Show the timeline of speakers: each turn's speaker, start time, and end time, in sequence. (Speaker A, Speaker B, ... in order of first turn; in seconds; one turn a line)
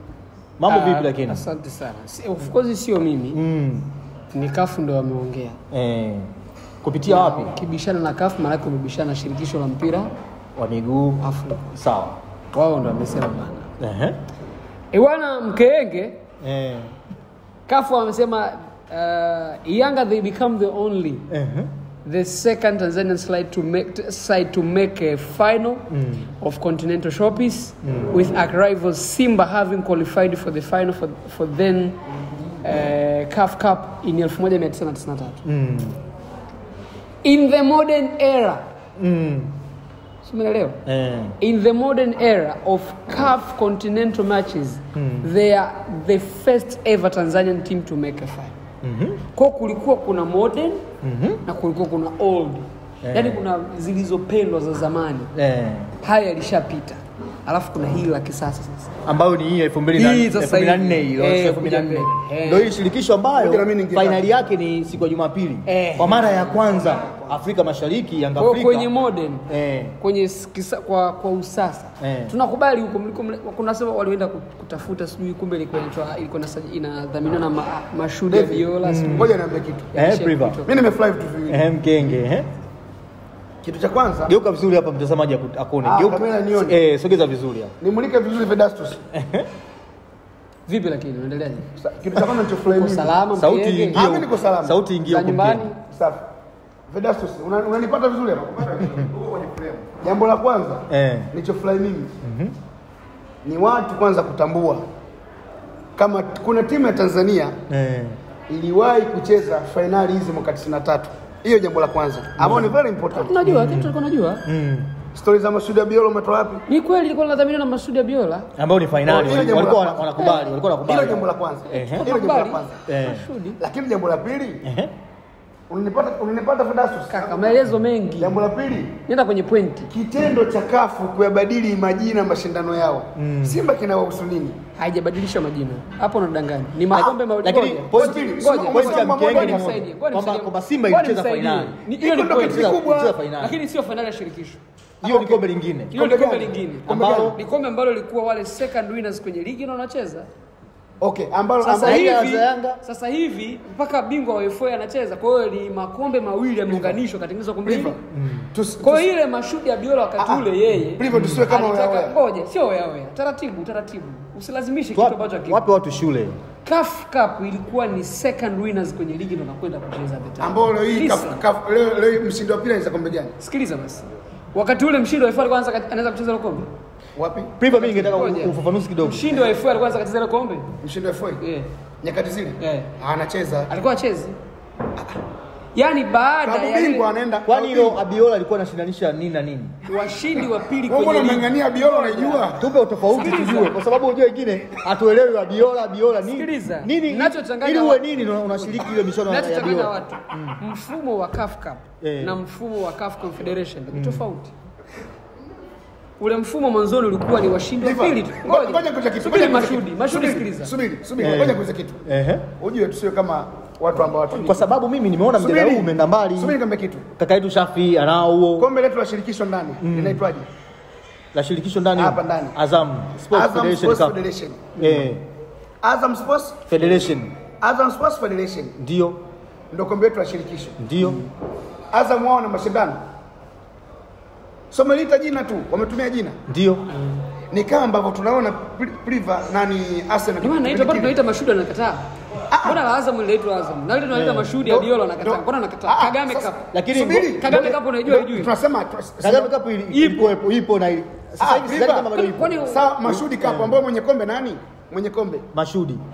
Speaker A: 0.6-1.4
Speaker B: 0.7-3.4
Speaker A: 3.3-3.9
Speaker B: 4.3-5.6
Speaker A: 5.7-6.3
Speaker A: 6.8-7.5
Speaker B: 7.1-10.1
Speaker A: 10.6-11.2
Speaker B: 11.2-11.7
Speaker A: 11.8-12.2
Speaker B: 12.5-13.7
Speaker A: 13.8-14.2
Speaker B: 14.9-16.2
Speaker A: 16.4-16.9
Speaker B: 17.7-21.3
Speaker A: 21.3-21.7
Speaker B: 22.1-32.0
Speaker A: 25.9-26.3
Speaker A: 27.8-28.1
Speaker B: 32.6-35.4
Speaker A: 35.5-36.0
Speaker B: 37.2-38.6
Speaker A: 39.0-39.5
Speaker B: 40.2-40.8
Speaker A: 40.9-41.4
Speaker B: 41.4-48.5
Speaker A: 45.0-45.3
Speaker A: 48.8-49.2
Speaker B: 49.3-50.9
Speaker A: 51.0-51.4
Speaker B: 51.5-55.3
Speaker A: 53.0-53.4
Speaker A: 55.4-55.9
Speaker B: 56.0-58.9
Speaker A: 59.1-68.9
Speaker B: 60.0-62.8
Speaker C: 63.4-64.3
Speaker B: 65.7-66.7
Speaker B: 68.4-69.5
Speaker A: 69.5-70.0
Speaker B: 70.0-79.4
Speaker A: 72.0-72.3
Speaker C: 78.3-79.9
Speaker A: 78.8-79.3
Speaker B: 79.9-80.8
Speaker A: 80.0-80.6
Speaker C: 80.7-81.7
Speaker A: 81.5-82.5
Speaker C: 83.6-84.3
Speaker A: 84.3-87.7
Speaker C: 85.8-86.8
Speaker C: 87.8-89.0
Speaker A: 89.1-89.5
Speaker B: 90.7-91.7
Speaker C: 91.8-93.2
Speaker B: 92.7-94.1
Speaker A: 93.4-95.7
Speaker C: 93.9-94.8
Speaker B: 95.1-95.8
Speaker C: 95.9-96.2
Speaker C: 96.9-102.1
Speaker A: 100.9-101.3
Speaker A: 102.2-102.5
Speaker C: 103.4-104.8
Speaker C: 106.0-107.5
Speaker A: 107.7-108.2
Speaker C: 108.5-113.4
Speaker A: 112.4-112.7
Speaker B: 113.1-114.5
Speaker A: 113.4-113.9
Speaker A: 114.5-114.9
Speaker C: 115.2-116.7
Speaker B: 116.7-118.5
Speaker A: 118.6-122.0
Speaker C: 119.1-120.2
Speaker B: 120.2-120.5
Speaker C: 120.8-122.8
Speaker B: 121.7-123.6
Speaker A: 122.9-123.2
Speaker C: 123.6-124.6
Speaker A: 124.6-124.9
Speaker C: 125.7-127.6
Speaker B: 127.1-128.4
Speaker C: 128.2-129.0
Speaker B: 129.1-129.9
Speaker C: 129.9-134.6
Speaker A: 133.2-133.6
Speaker B: 134.8-142.7
Speaker A: 136.9-141.8
Speaker C: 138.0-139.8
Speaker C: 142.0-143.2
Speaker A: 142.4-143.6
Speaker B: 143.4-144.6
Speaker C: 145.0-147.4
Speaker A: 145.0-145.9
Speaker B: 145.9-150.3
Speaker A: 146.9-147.4
Speaker C: 151.0-152.2
Speaker B: 151.6-158.0
Speaker A: 151.8-152.8
Speaker C: 156.7-157.0
Speaker C: 157.7-158.0
Speaker A: 158.1-158.5
Speaker C: 158.5-159.1
Speaker B: 158.8-165.6
Speaker C: 160.2-162.2
Speaker A: 161.1-161.4
Speaker A: 164.9-166.4
Speaker B: 166.7-171.4
Speaker C: 170.4-173.3
Speaker B: 173.4-176.7
Speaker C: 177.2-177.6
Speaker A: 177.6-179.3
Speaker B: 177.7-180.7
Speaker C: 180.8-181.4
Speaker B: 181.4-181.7
Speaker C: 182.0-183.7
Speaker B: 182.6-182.9
Speaker B: 183.7-184.4
Speaker B: 185.8-187.1
Speaker C: 186.4-188.0
Speaker A: 187.5-189.8
Speaker B: 189.8-192.6
Speaker C: 190.9-192.6
Speaker A: 192.6-200.6
Speaker B: 193.1-193.8
Speaker B: 196.2-204.5
Speaker A: 202.0-202.4
Speaker A: 203.9-204.2
Speaker B: 206.2-210.7
Speaker C: 207.8-214.7
Speaker A: 211.2-212.5
Speaker A: 214.3-216.6
Speaker C: 215.3-217.1
Speaker A: 217.2-218.7
Speaker C: 218.6-220.5
Speaker A: 219.8-220.2
Speaker A: 221.3-224.2
Speaker C: 221.9-222.6
Speaker C: 223.3-224.8
Speaker A: 224.8-225.2
Speaker C: 225.8-226.7
Speaker A: 226.7-227.3
Speaker C: 227.6-228.8
Speaker A: 228.8-229.2
Speaker C: 229.7-231.1
Speaker A: 230.8-231.2
Speaker C: 231.9-233.0
Speaker C: 234.7-236.4
Speaker A: 236.5-236.9
Speaker B: 236.9-237.2
Speaker C: 237.5-241.2
Speaker B: 240.4-242.0
Speaker C: 242.5-242.8
Speaker B: 242.6-246.7
Speaker A: 244.1-244.6
Speaker C: 244.6-249.5
Speaker A: 246.7-247.7
Speaker B: 247.4-248.5
Speaker A: 249.2-252.6
Speaker B: 249.9-250.3
Speaker C: 251.4-255.5
Speaker B: 252.1-253.0
Speaker A: 253.1-253.8
Speaker A: 255.5-256.0